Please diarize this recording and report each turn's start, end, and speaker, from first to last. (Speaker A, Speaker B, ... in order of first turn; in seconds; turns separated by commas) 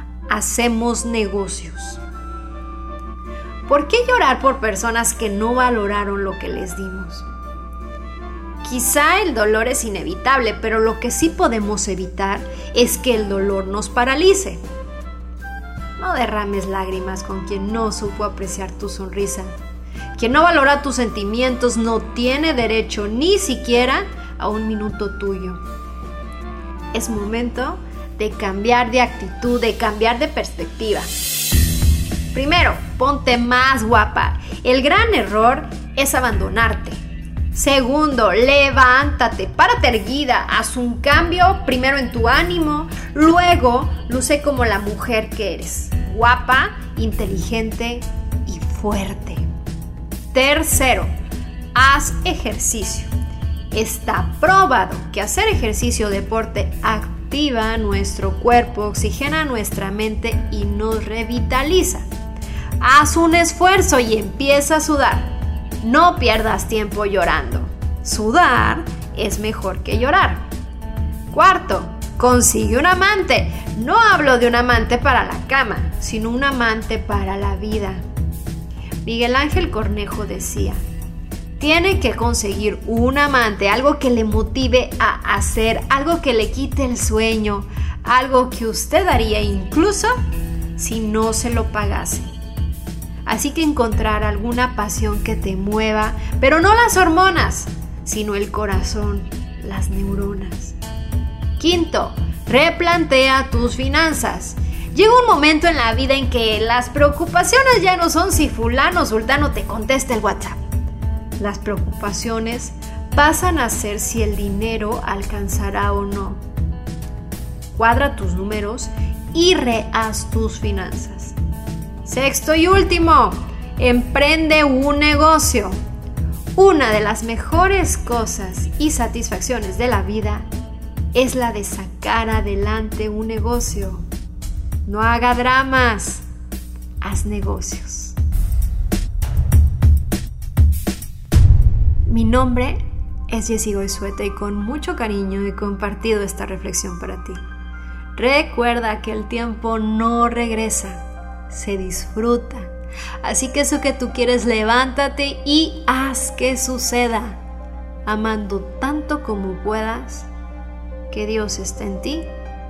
Speaker A: 0.3-2.0, Speaker A: 3.6-7.3, Speaker A: 8.6-14.6, Speaker A: 16.0-19.5, Speaker A: 20.1-25.6, Speaker A: 26.9-31.1, Speaker A: 32.3-37.0, Speaker A: 37.5-49.5, Speaker A: 50.3-51.1, Speaker A: 51.7-53.1, Speaker A: 53.7-62.0, Speaker A: 62.8-70.4, Speaker A: 71.3-78.0, Speaker A: 79.0-80.8, Speaker A: 81.6-90.1, Speaker A: 90.8-92.3, Speaker A: 93.2-100.8, Speaker A: 101.6-110.6, Speaker A: 111.4-116.4, Speaker A: 117.7-121.3, Speaker A: 122.0-125.8, Speaker A: 126.5-130.5, Speaker A: 131.1-134.0, Speaker A: 134.8-136.2, Speaker A: 137.0-138.2, Speaker A: 142.1-147.4, Speaker A: 148.2-152.7, Speaker A: 153.2-157.4, Speaker A: 158.0-160.3, Speaker A: 161.1-162.3